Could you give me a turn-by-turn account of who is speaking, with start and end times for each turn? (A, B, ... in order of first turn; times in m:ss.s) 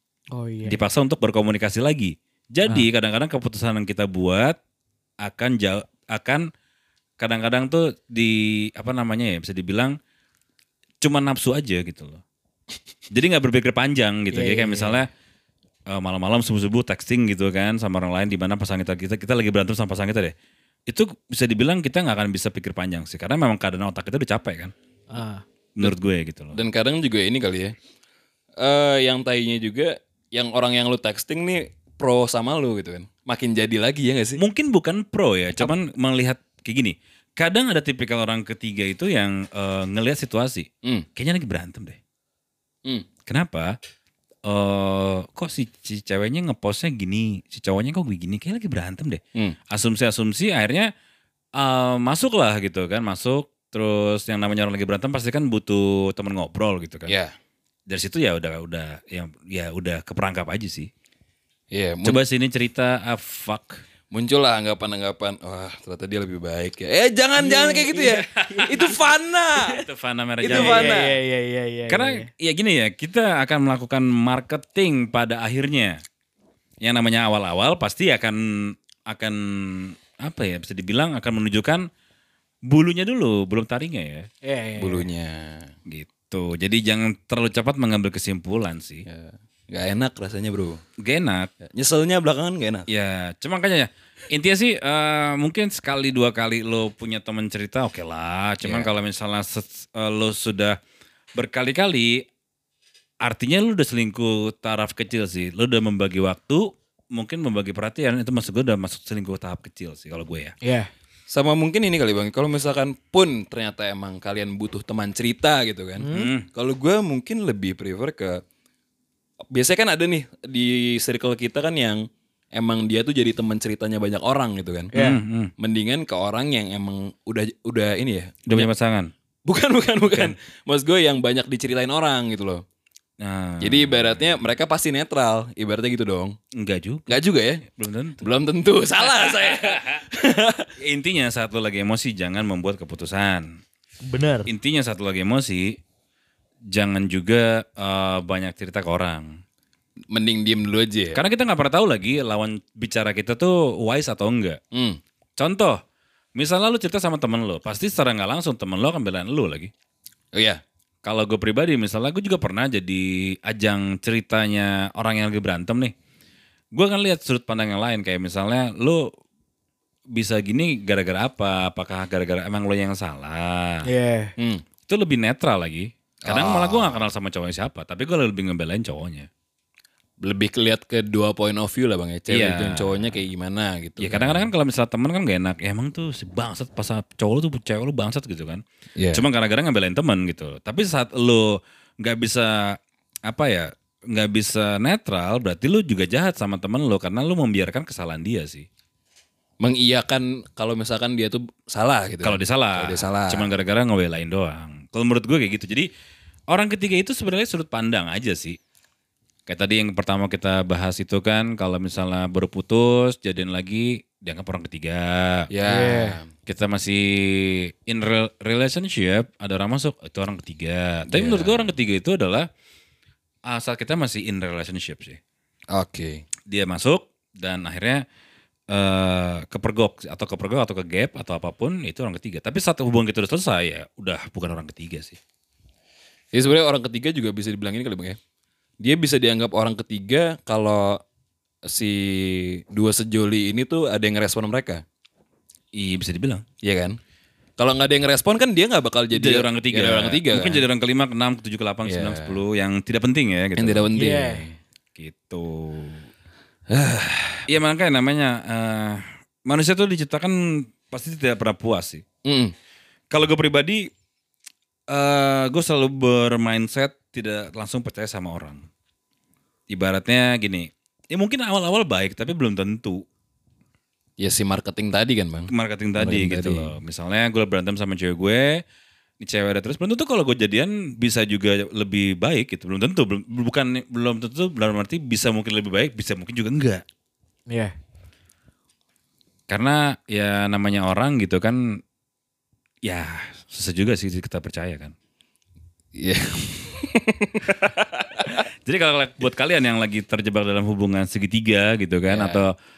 0:00.3-0:00.8 A
0:00.6-0:04.6 B
0:05.2-0:06.4 B
0:07.2-0:10.0 B
0:11.0-0:12.2 B
0:13.1-0:15.1 B
0:14.3-0:15.0 A
0:15.9-0:20.3 B
0:20.9-0:24.7 B
0:25.1-0:25.4 A
0:25.8-0:26.6 B
0:26.5-0:27.7 C
0:28.6-0:34.4 C
0:34.4-0:42.0 B
0:43.3-0:43.8 B
0:44.4-0:50.9 B
0:51.6-0:57.1 B
0:57.1-0:57.3 C
0:57.9-1:00.9 B
1:01.7-1:02.2 C
1:02.0-1:03.8 B
1:04.1-1:09.8 C
1:07.4-1:08.0 A
1:08.0-1:08.9 B
1:09.7-1:11.0 B
1:10.4-1:11.1 C
1:10.5-1:12.3 A
1:11.9-1:16.0 B
1:16.8-1:21.8 B
1:22.7-1:24.3 B
1:24.4-1:25.1 A
1:24.8-1:25.7 C
1:25.9-1:29.0 B
1:29.0-1:30.8 C
1:31.0-1:31.5 B
1:31.6-1:32.9 C
1:32.9-1:40.8 B
1:38.6-1:38.9 C
1:41.3-1:42.2 B
1:43.2-1:50.5 B
1:50.6-1:50.9 A
1:51.3-1:58.4 C
1:56.0-1:56.3 A
1:56.1-1:56.5 B
1:59.5-2:04.9 C
2:04.9-2:05.2 A
2:04.9-2:05.5 B
2:05.6-2:08.7 C
2:08.5-2:09.1 B
2:09.4-2:12.6 C
2:10.1-2:10.3 B
2:13.2-2:14.4 B
2:13.6-2:16.4 C
2:16.6-2:17.2 B
2:17.1-2:17.6 C
2:17.7-2:18.3 B
2:18.2-2:20.7 C
2:19.1-2:20.0 B
2:20.8-2:23.6 B
2:24.0-2:24.5 A
2:24.5-2:25.8 B
2:26.7-2:29.4 B
2:30.1-2:31.2 C
2:31.1-2:34.6 B
2:34.7-2:35.0 C
2:35.4-2:35.8 B
2:36.4-2:39.7 B
2:40.3-2:40.6 C
2:41.0-2:45.9 B
2:46.7-2:49.1 B
2:50.1-2:53.9 B
2:53.8-2:54.3 A
2:54.4-2:54.6 C
2:54.9-2:59.3 B
2:56.2-2:57.1 C
3:00.2-3:04.5 C
3:02.3-3:03.2 B
3:04.0-3:08.6 B
3:09.0-3:09.2 C
3:09.1-3:18.6 B
3:19.6-3:23.5 C
3:22.2-3:25.9 B
3:26.5-3:28.6 B
3:29.5-3:35.5 B
3:35.5-3:36.3 C
3:35.6-3:36.2 A
3:36.4-3:42.5 B
3:41.1-3:41.7 C
3:43.5-3:45.2 B
3:45.7-3:46.2 C
3:46.5-3:48.0 B
3:48.7-3:55.2 B
3:56.3-3:58.2 C
3:58.8-4:01.0 C
4:01.6-4:04.8 C
4:05.7-4:06.4 B
4:06.6-4:07.0 C
4:07.6-4:10.6 C
4:09.1-4:13.9 B
4:11.8-4:12.4 C
4:13.6-4:14.6 C
4:13.9-4:14.4 A
4:15.0-4:16.1 B
4:16.7-4:17.5 C
4:17.5-4:22.0 B
4:22.2-4:22.5 C
4:23.1-4:23.9 B
4:24.9-4:28.6 B
4:29.7-4:33.0 B
4:34.2-4:36.7 C
4:35.5-4:38.6 B
4:39.2-4:46.8 B
4:49.5-4:51.8 B
4:52.8-4:54.9 B
4:55.9-4:58.4 C
4:58.2-5:02.5 B
5:02.1-5:02.4 C